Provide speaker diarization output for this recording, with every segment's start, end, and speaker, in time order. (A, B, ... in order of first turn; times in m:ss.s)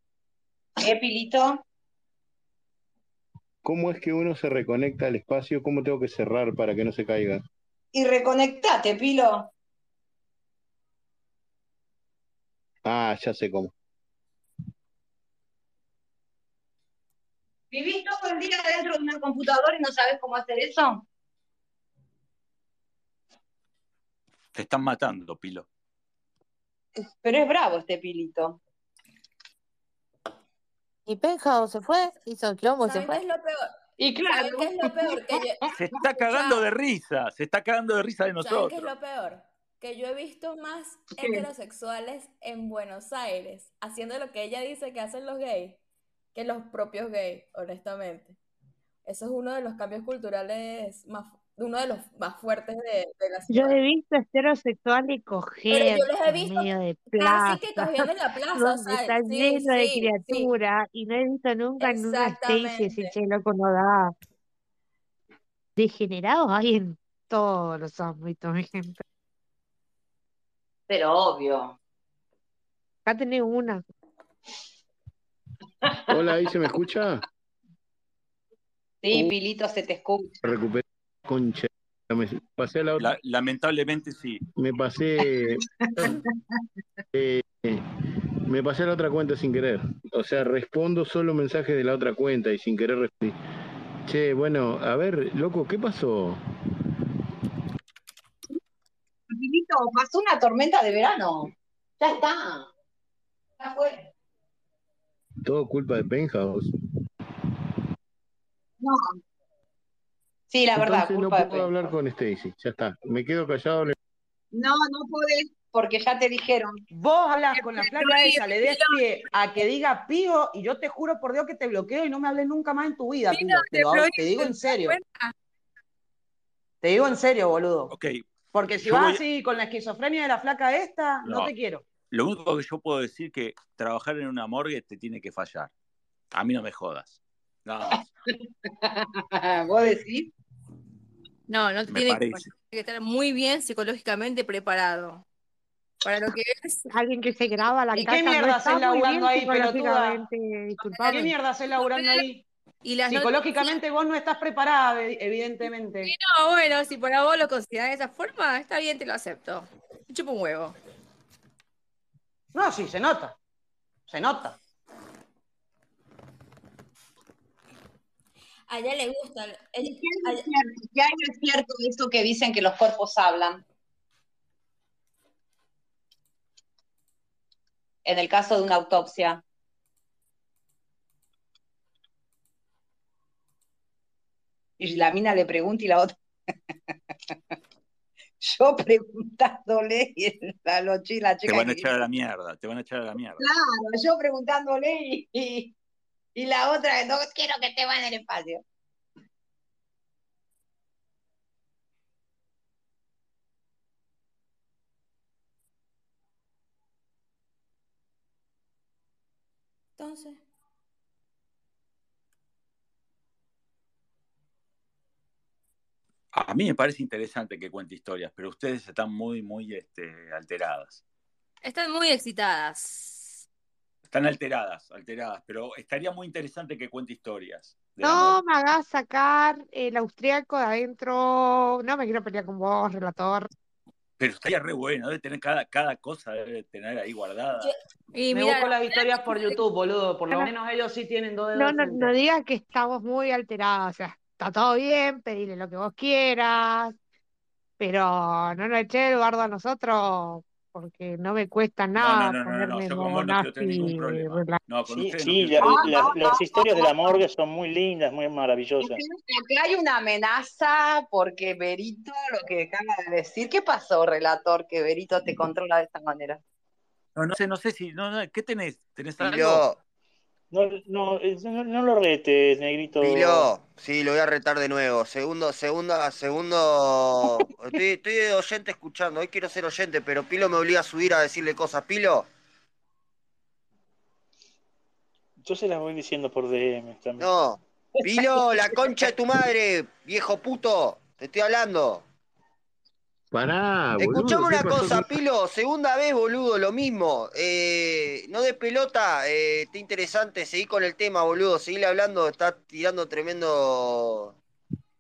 0:00.8-0:01.6 A
0:03.6-0:07.4 B
0:07.9-0:09.5 A
0:12.8-0:13.7 B
0:17.7-0:21.0 A
0:24.6-0:25.7 C
0:27.2-0:28.6 A
0:31.1-0:33.2 D
0:32.8-0:33.7 E
0:34.0-0:35.4 A
0:34.2-0:35.7 E
0:35.8-0:38.9 C
0:36.2-0:36.7 E
0:38.4-0:45.8 E
0:41.2-0:41.4 A
0:46.3-0:48.4 E
0:49.0-0:53.8 E
0:53.5-1:04.1 F
0:55.7-1:00.5 E
1:01.8-1:03.2 E
1:05.8-1:09.0 F
1:10.9-1:11.8 A
1:13.1-1:13.8 F
1:16.1-1:17.2 B
1:19.0-1:20.4 A
1:20.4-1:23.1 B
1:23.0-1:24.4 C
1:24.6-1:26.2 B
1:26.0-1:26.2 A
1:27.1-1:27.8 B
1:28.5-1:33.4 B
1:34.1-1:36.4 B
1:39.3-1:42.7 A
1:43.6-1:44.1 A
1:45.4-1:46.7 B
1:48.8-1:49.2 A
1:50.5-1:51.7 A
1:50.8-1:54.0 B
1:54.5-1:56.8 A
1:56.9-2:05.0 G
1:57.5-1:59.0 H
2:03.3-2:05.3 H
2:06.8-2:07.9 G
2:07.9-2:08.3 C
2:08.5-2:11.8 G
2:08.8-2:09.2 C
2:11.2-2:11.5 C
2:12.1-2:15.7 C
2:16.3-2:18.0 C
2:18.3-2:20.3 A
2:21.5-2:25.2 H
2:21.9-2:22.5 C
2:26.0-2:26.8 H
2:26.9-2:31.3 F
2:28.0-2:30.2 G
2:31.1-2:32.4 G
2:31.8-2:32.3 H
2:32.8-2:33.8 H
2:33.1-2:36.1 G
2:36.0-2:40.8 H
2:42.5-2:43.4 G
2:44.1-2:44.6 G
2:48.7-2:50.5 E
2:49.8-2:53.6 A
2:58.0-2:59.4 A
3:04.8-3:06.1 A
3:08.4-3:11.9 A
3:11.5-3:13.4 C
3:13.4-3:15.7 A
3:16.4-3:18.6 A
3:30.0-3:30.4 E
3:36.3-3:41.0 C
3:41.6-3:43.4 H
3:44.1-3:48.4 C
3:48.0-3:53.5 F
3:54.2-3:57.7 C
3:58.1-3:59.6 H
3:58.3-4:02.1 G
4:01.6-4:07.0 F
4:07.8-4:14.6 F
4:12.0-4:16.3 C
4:14.9-4:19.0 I
4:15.6-4:17.2 A
4:18.8-4:26.4 A
4:27.2-4:29.7 C
4:29.2-4:29.8 J
4:30.5-4:33.5 I
4:33.0-4:42.3 J
4:45.4-4:47.3 I
4:47.2-4:52.0 J
4:48.0-4:48.5 A
4:53.3-4:55.1 B
4:54.0-5:04.4 J